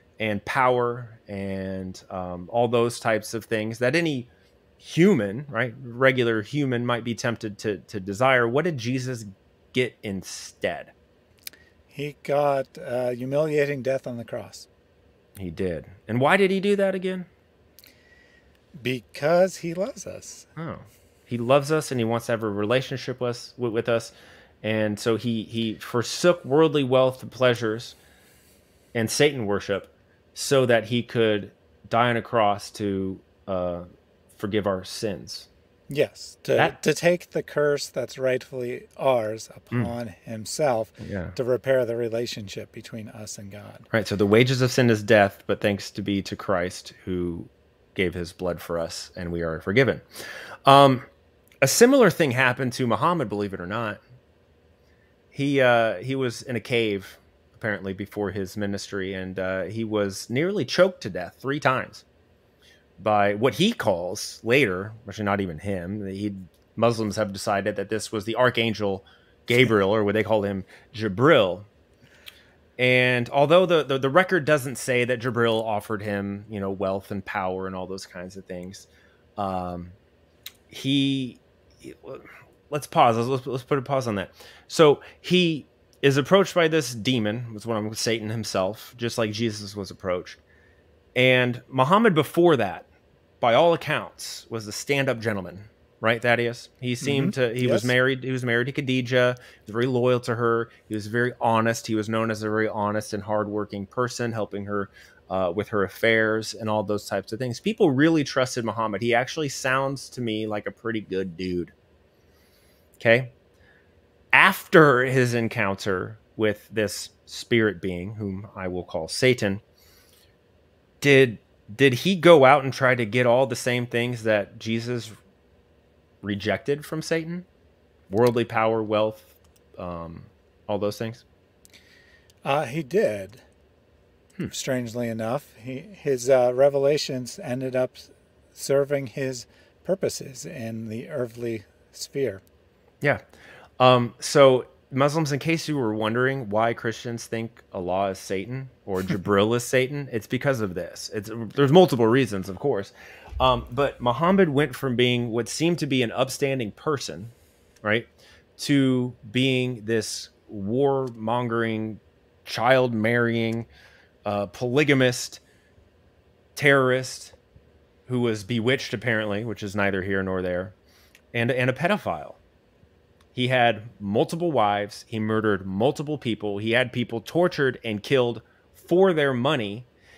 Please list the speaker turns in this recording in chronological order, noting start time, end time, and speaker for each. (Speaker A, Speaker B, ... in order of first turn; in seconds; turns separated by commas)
Speaker A: 0.2-10.9, Speaker B: 11.9-14.7, Speaker A: 15.4-17.3, Speaker B: 18.8-20.5, Speaker A: 20.6-28.0, Speaker A: 28.9-35.5, Speaker B: 35.9-43.9, Speaker A: 41.0-41.4, Speaker A: 43.9-51.1, Speaker A: 51.6-54.0, Speaker A: 55.3-62.0, Speaker A: 63.0-71.7, Speaker A: 72.8-80.0, Speaker A: 80.7-90.4, Speaker A: 91.2-92.9, Speaker A: 93.4-111.7, Speaker B: 97.0-97.9, Speaker A: 113.0-113.3, Speaker A: 114.3-119.6, Speaker A: 121.0-125.2, Speaker A: 126.2-127.5, Speaker A: 128.1-131.2, Speaker B: 132.4-133.4, Speaker B: 134.5-142.4, Speaker A: 143.8-163.7, Speaker A: 164.2-165.4, Speaker A: 166.6-167.4, Speaker A: 168.1-170.8, Speaker A: 171.3-172.4, Speaker A: 173.3-179.9